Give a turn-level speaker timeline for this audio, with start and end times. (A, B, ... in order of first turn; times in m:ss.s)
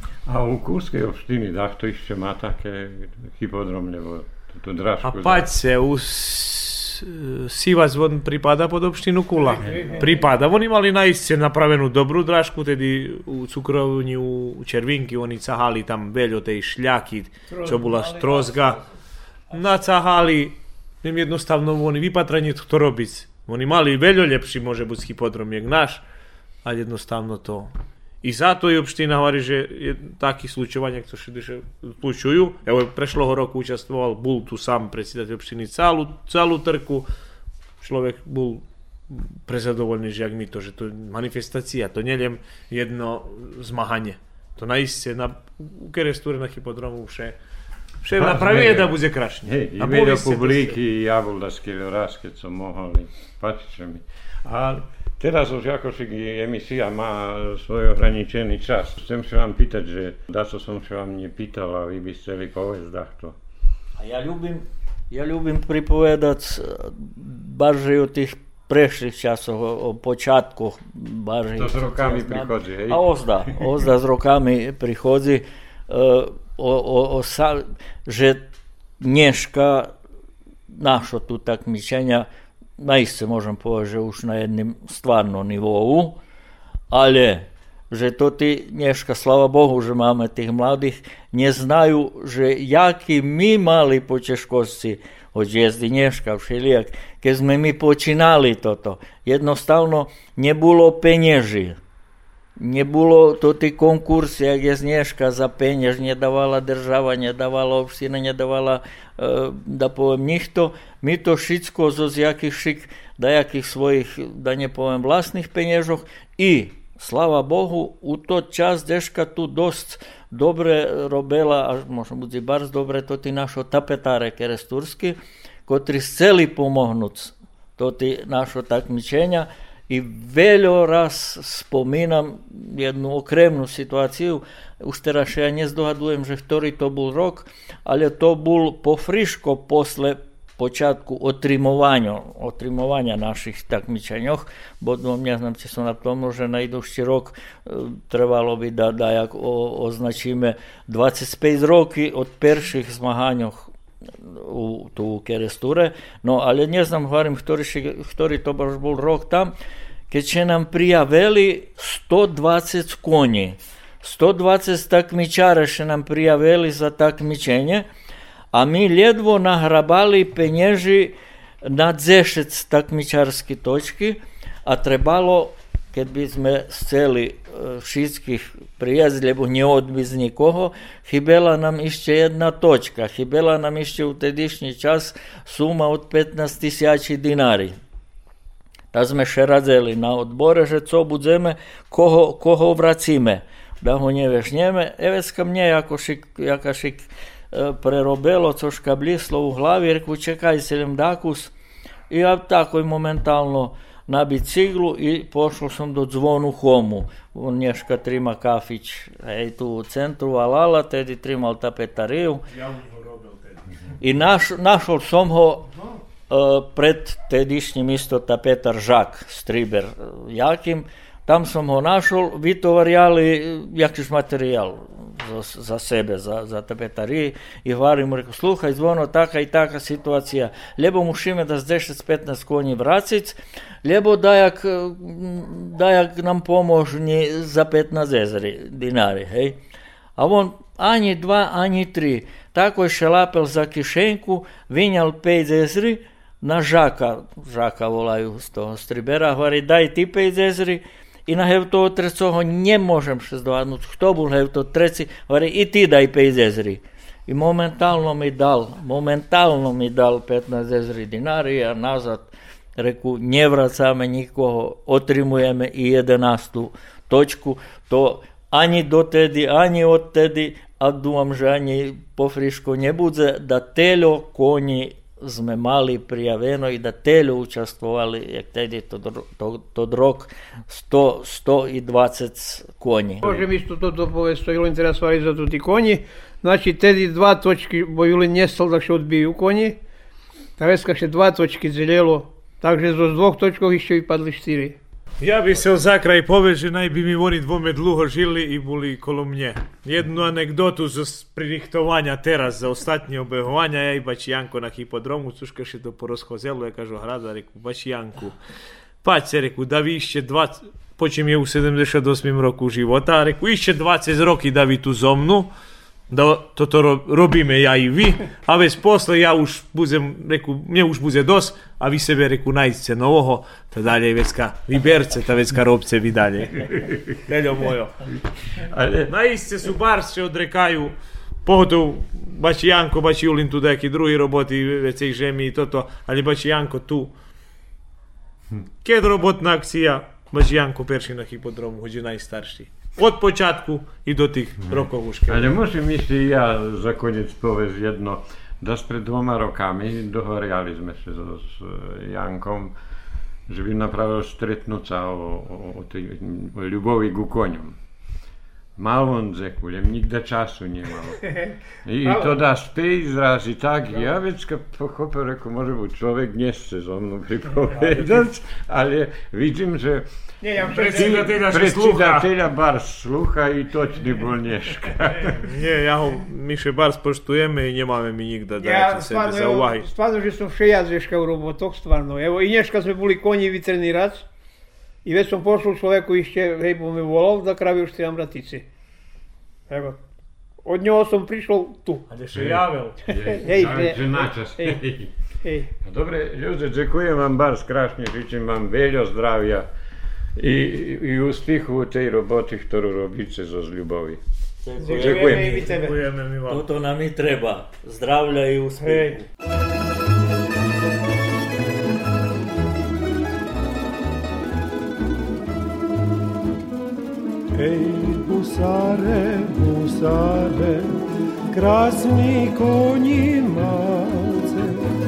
0:00.2-0:05.5 A
0:05.0-0:18.8 B
0:09.4-0:10.2 C
0:17.5-0:18.7 C
0:19.5-0:26.0 B
0:26.6-0:27.7 B
0:28.2-0:37.1 B
0:37.8-0:47.4 B
0:48.0-0:50.8 B
0:48.2-0:48.9 A
0:49.4-1:03.4 A
1:04.0-1:18.4 D
1:11.6-1:13.7 A
1:19.0-1:19.9 D
1:20.7-1:22.3 D
1:22.8-1:26.2 D
1:26.9-1:41.8 D
1:42.6-2:39.5 D
2:40.1-2:47.8 D
2:48.5-3:07.7 D
3:08.9-3:21.5 D
3:22.1-3:32.4 D
3:32.5-3:33.7 B
3:34.0-3:35.7 D
3:36.3-3:59.6 D
4:00.2-4:43.4 D
4:43.2-4:49.8 C
4:50.6-4:54.8 C
4:55.2-5:08.4 B
5:09.0-5:15.5 B
5:16.1-5:28.0 B
5:26.7-5:27.2 A
5:28.1-5:29.1 A
5:29.1-5:30.9 B
5:31.4-5:37.1 B
5:38.8-5:45.5 B
5:44.7-5:52.7 A
5:53.5-5:57.8 A
5:58.8-6:01.3 A
6:01.8-6:10.1 A
6:02.0-6:02.3 C
6:10.4-6:11.2 C
6:10.7-6:12.3 B
6:10.8-6:15.5 A
6:15.4-6:19.9 B
6:18.6-6:24.2 C
6:25.0-6:28.6 C
6:29.7-6:30.0 C
6:30.6-6:32.0 C
6:32.1-6:33.0 B
6:32.3-6:35.1 A
6:33.1-6:34.8 C
6:35.4-6:35.7 C
6:35.8-6:39.7 A
6:40.4-6:44.2 A
6:44.6-6:45.7 D
6:44.8-6:46.0 C
6:44.8-6:45.7 A
6:45.6-6:46.6 B
6:46.5-6:49.2 D
6:48.8-6:49.2 C
6:57.5-7:04.9 E